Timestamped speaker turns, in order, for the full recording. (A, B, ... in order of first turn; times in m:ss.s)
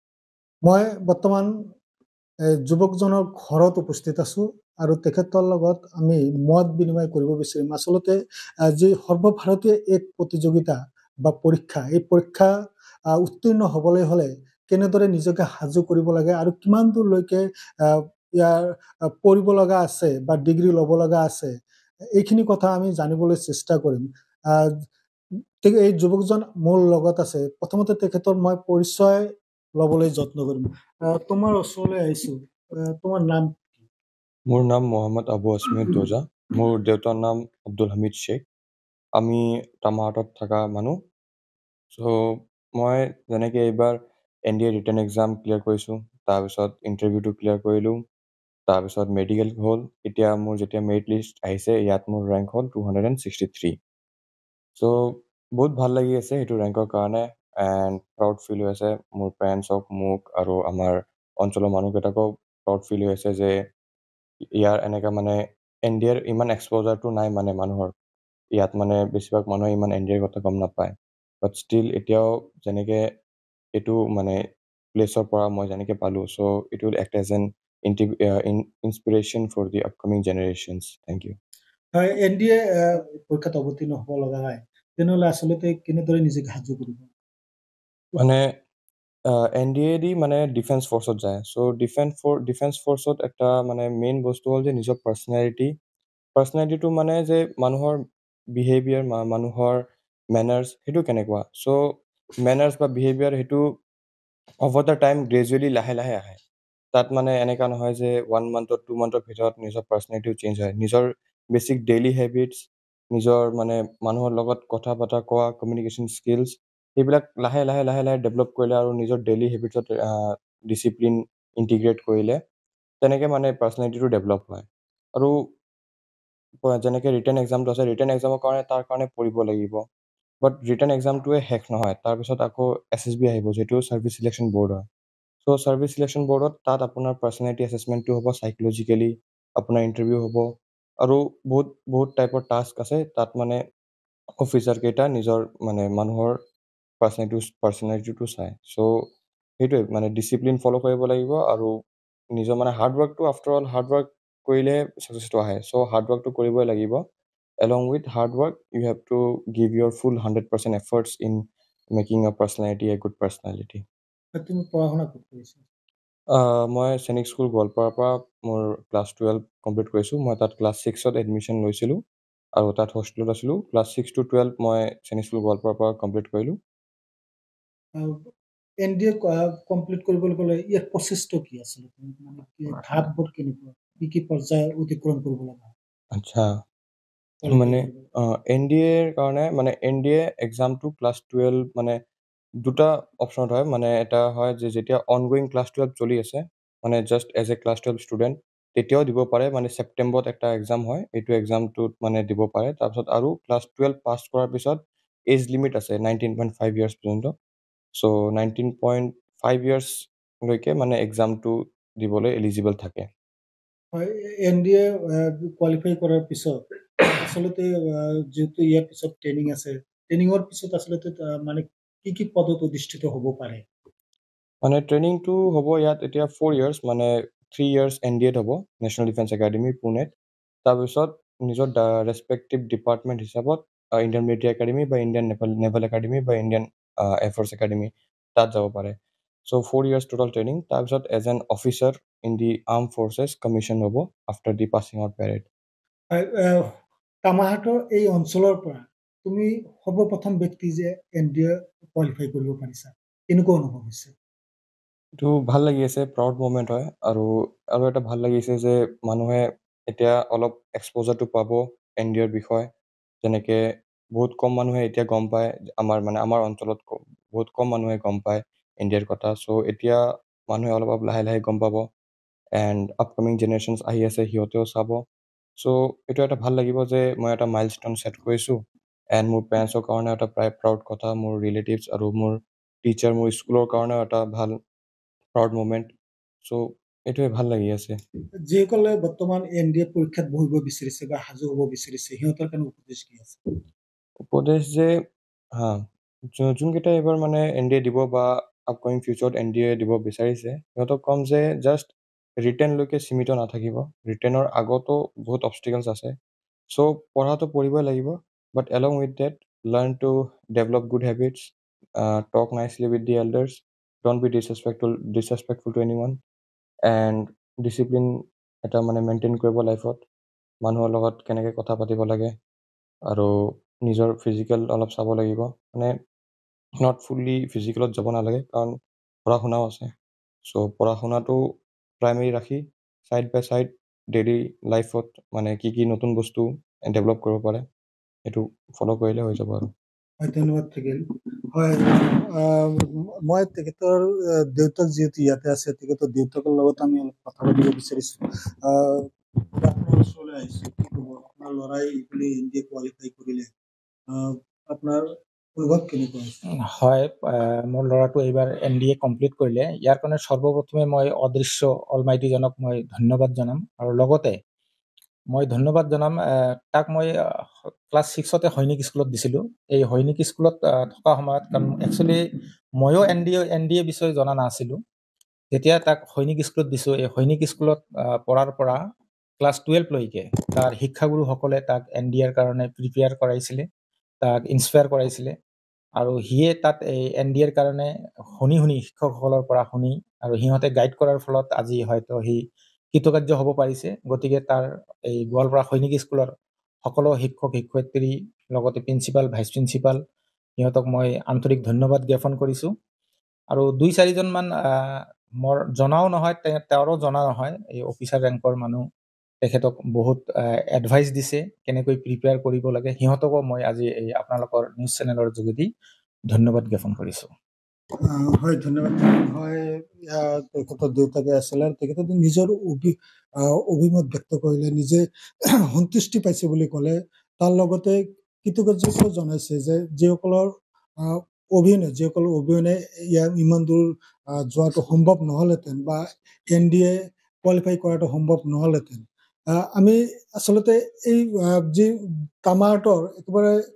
0:00.6-0:01.5 A
0:02.7-0:08.2 A
0:08.7-0:12.5 A
0:13.1-0:21.6 A
0:22.2-0:24.7 A
0:25.6-0:29.3 A
0:29.8-0:33.8 A
0:34.5-0:38.4 B
0:39.2-0:41.0 B
0:41.9-0:44.0 B
0:44.5-0:48.0 B
0:48.7-0:53.7 B
0:54.8-1:03.5 B
1:04.6-1:07.9 B
1:08.6-1:13.0 B
1:13.8-1:14.4 B
1:15.0-1:21.4 B
1:21.9-1:27.1 A
1:28.2-1:28.5 B
1:29.3-1:35.7 B
1:36.4-1:38.0 B
1:38.6-1:39.8 B
1:40.3-1:41.8 B
1:42.4-1:43.6 B
1:44.6-1:46.4 B
1:46.9-2:02.4 B
2:03.0-2:04.7 B
2:06.6-2:09.8 B
2:10.4-2:14.8 B
2:15.4-2:20.4 B
2:21.0-2:23.6 B
2:24.4-2:26.4 B
2:27.0-2:28.9 B
2:29.6-2:31.7 B
2:32.4-2:37.0 B
2:37.6-2:41.4 B
2:41.9-2:43.8 B
2:44.3-2:45.7 A
2:46.3-2:52.0 B
2:52.6-2:56.6 B
2:58.8-3:05.8 A
3:06.1-3:06.5 B
3:07.4-3:08.0 A
3:07.4-3:12.0 B
3:12.6-3:24.8 B
3:25.3-3:27.3 B
3:28.0-3:33.1 B
3:33.9-3:43.7 A
3:44.6-3:58.9 B
3:59.4-4:05.5 B
4:06.1-4:06.7 A
4:07.2-4:14.1 A
4:15.2-4:22.7 B
4:23.2-4:23.6 B
4:24.2-4:31.8 B
4:32.6-4:35.0 B
4:35.6-4:38.6 B
4:39.1-4:44.6 B
4:45.3-4:45.9 B
4:46.4-4:48.0 B
4:48.5-4:53.4 A
4:54.3-4:54.9 B
4:56.3-5:06.1 B
5:06.7-5:16.1 B
5:16.9-5:18.1 B
5:18.6-5:20.0 B
5:20.6-5:22.3 B
5:23.9-5:25.9 B
5:26.8-5:28.7 B
5:29.3-5:29.9 B
5:30.5-5:37.6 B
5:38.3-5:39.6 B
5:40.2-5:41.0 A
5:41.5-5:53.5 A
5:54.1-5:55.0 A
5:55.6-5:56.3 A
5:56.7-6:04.4 C
6:05.3-6:12.2 C
6:12.8-6:14.8 C
6:15.5-6:18.8 C
6:19.4-6:23.7 C
6:24.2-6:25.3 C
6:26.0-6:32.4 C
6:32.9-6:36.3 C
6:36.8-6:40.0 C
6:40.6-6:42.7 C
6:43.5-6:48.9 C
6:49.4-6:55.7 C
6:56.3-6:57.3 C
6:58.0-7:05.0 A
7:05.7-7:10.5 A
7:11.0-7:19.1 A
7:19.6-7:21.9 A
7:22.4-7:23.6 A